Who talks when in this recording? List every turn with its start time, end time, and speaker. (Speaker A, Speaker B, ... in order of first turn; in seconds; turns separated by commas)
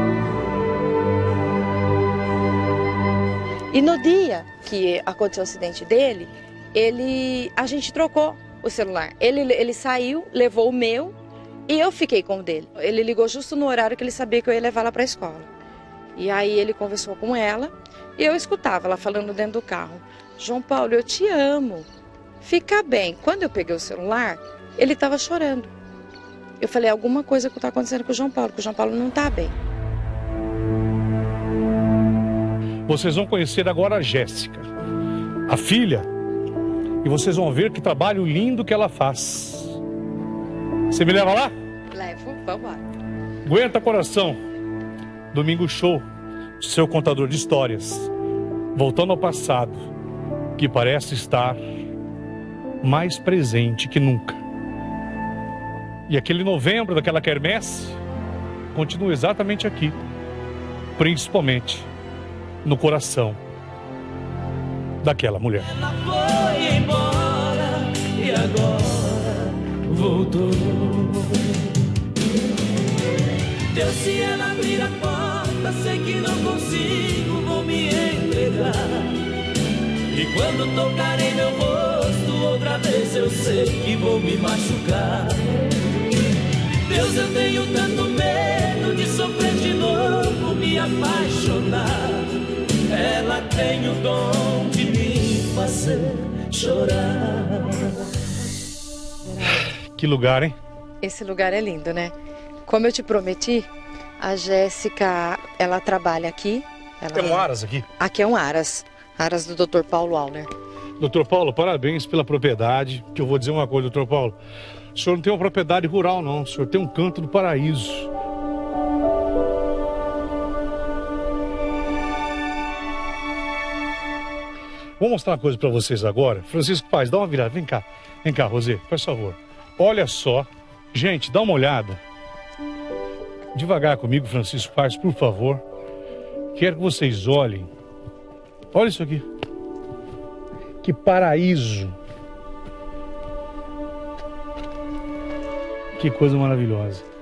Speaker A: 3.7-15.5, Speaker A: 16.1-21.9, Speaker A: 22.4-25.7, Speaker A: 26.6-29.6, Speaker B: 32.9-34.7, Speaker B: 35.5-36.1, Speaker B: 37.0-39.8, Speaker B: 40.9-41.5, Speaker A: 41.9-42.9, Speaker B: 43.4-44.4, Speaker B: 45.3-46.0, Speaker B: 46.6-48.1, Speaker B: 48.7-49.9, Speaker B: 50.6-51.6, Speaker B: 52.8-54.4, Speaker B: 56.1-58.0, Speaker B: 58.7-60.0, Speaker B: 61.0-61.9, Speaker B: 62.6-63.4, Speaker B: 65.0-65.7, Speaker C: 65.7-71.5, Speaker C: 73.7-79.2, Speaker C: 80.1-85.6, Speaker C: 86.8-92.3, Speaker C: 92.9-98.0, Speaker B: 99.9-100.5, Speaker A: 101.0-102.1, Speaker A: 102.7-103.7, Speaker A: 104.2-110.5, Speaker B: 107.1-107.9, Speaker B: 111.0-114.4, Speaker B: 114.9-118.1, Speaker B: 125.0-132.0, Speaker B: 133.5-135.6, Speaker B: 136.5-137.7, Speaker B: 138.7-139.2, Speaker B: 140.8-141.9, Speaker B: 146.0-147.0